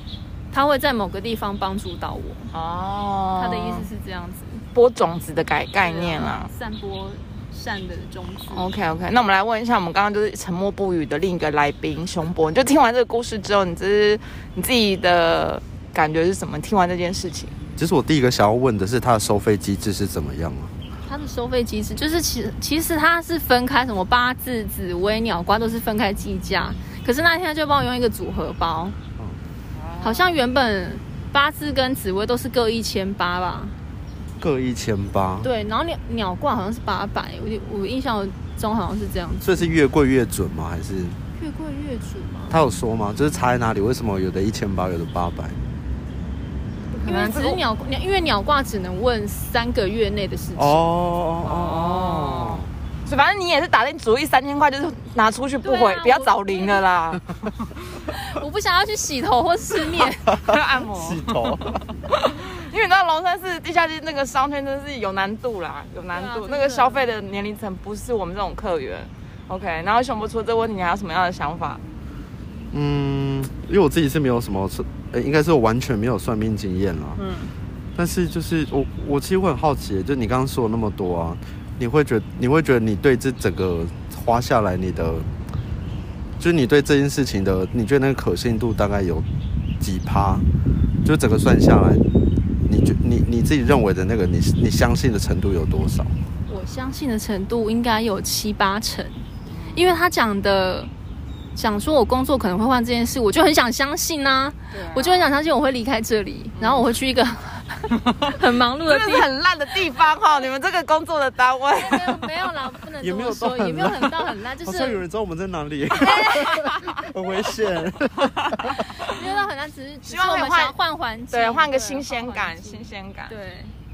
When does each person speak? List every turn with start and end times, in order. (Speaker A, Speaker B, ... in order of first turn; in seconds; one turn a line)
Speaker A: 0.5-2.5
Speaker B: 2.5-3.9
Speaker A: 3.4-4.7
Speaker B: 4.7-6.5
Speaker A: 5.8-8.7
Speaker B: 8.5-17.6
Speaker C: 17.8-20.7
Speaker A: 21.1-29.0
Speaker B: 29.8-30.4
Speaker A: 30.0-33.8
Speaker C: 34.4-35.5
Speaker A: 35.4-39.7
Speaker C: 39.4-41.2
Speaker A: 41.4-42.6
Speaker C: 42.5-45.6
Speaker B: 46.9-47.6
Speaker A: 47.0-50.9
Speaker C: 50.6-52.7
Speaker B: 51.4-57.8
Speaker A: 55.6-56.9
Speaker A: 58.0-60.4
Speaker B: 60.4-71.8
Speaker C: 61.0-61.8
Speaker A: 66.1-67.0
Speaker C: 72.7-77.2
Speaker B: 77.2-77.5
Speaker C: 78.0-85.3
Speaker C: 86.4-89.3
Speaker C: 89.8-90.5
Speaker C: 91.0-92.0
Speaker C: 92.7-96.2
Speaker A: 96.5-100.9
Speaker B: 99.5-99.9
Speaker A: 101.5-109.3
Speaker B: 104.7-105.3
Speaker B: 106.5-106.9
Speaker B: 108.8-112.3
Speaker A: 111.7-115.0
Speaker C: 113.0-118.8
Speaker B: 116.2-116.7
Speaker A: 119.0-123.8
Speaker B: 120.0-120.8
Speaker B: 121.3-123.3